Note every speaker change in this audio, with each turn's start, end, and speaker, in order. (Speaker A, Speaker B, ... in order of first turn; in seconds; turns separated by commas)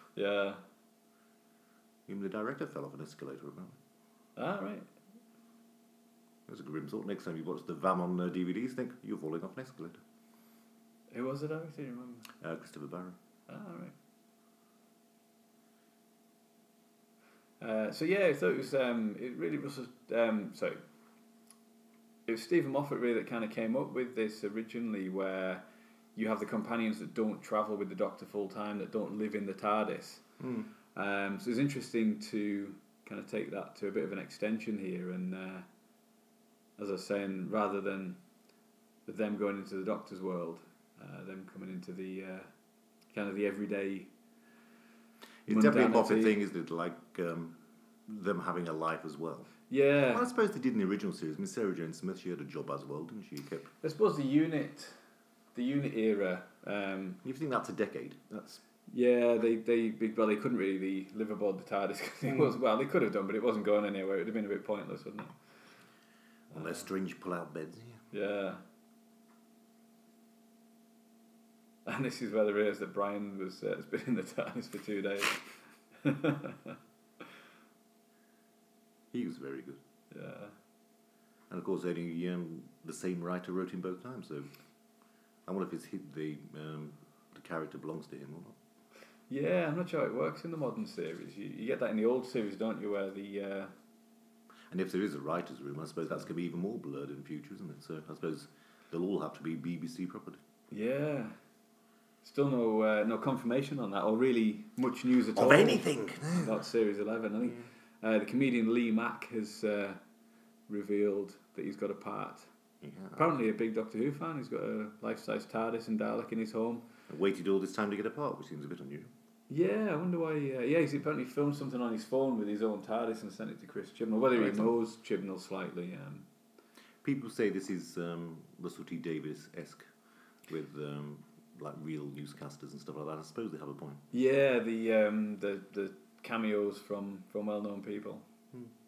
Speaker A: 0.1-0.6, Speaker B: 2.1-3.8, Speaker A: 4.3-4.9, Speaker B: 6.5-10.0, Speaker A: 11.1-12.3, Speaker B: 12.4-13.2, Speaker A: 13.5-13.9, Speaker A: 17.6-20.8, Speaker A: 22.2-25.6, Speaker A: 26.1-30.2, Speaker B: 30.4-30.6, Speaker A: 30.9-35.7, Speaker A: 36.8-38.2, Speaker A: 39.0-42.5, Speaker A: 43.1-44.1, Speaker B: 45.5-47.5, Speaker A: 45.5-46.4, Speaker B: 48.1-49.5, Speaker A: 49.7-50.3, Speaker B: 50.1-53.7, Speaker A: 53.8-55.0, Speaker A: 55.5-57.2, Speaker B: 57.2-58.6, Speaker A: 58.9-65.3, Speaker B: 66.5-68.0, Speaker A: 68.1-68.6, Speaker A: 71.8-76.8, Speaker B: 79.1-79.8, Speaker A: 80.1-80.5, Speaker B: 81.5-84.5, Speaker B: 85.5-88.5, Speaker A: 89.3-93.7, Speaker B: 94.7-100.4, Speaker A: 100.7-101.3, Speaker A: 102.2-110.0, Speaker B: 105.3-106.6, Speaker A: 110.7-112.5, Speaker B: 112.8-113.3, Speaker A: 113.2-116.8, Speaker B: 117.1-119.1, Speaker A: 119.5-126.2, Speaker B: 124.3-124.7, Speaker B: 127.0-129.8, Speaker B: 130.5-134.0, Speaker A: 134.1-138.2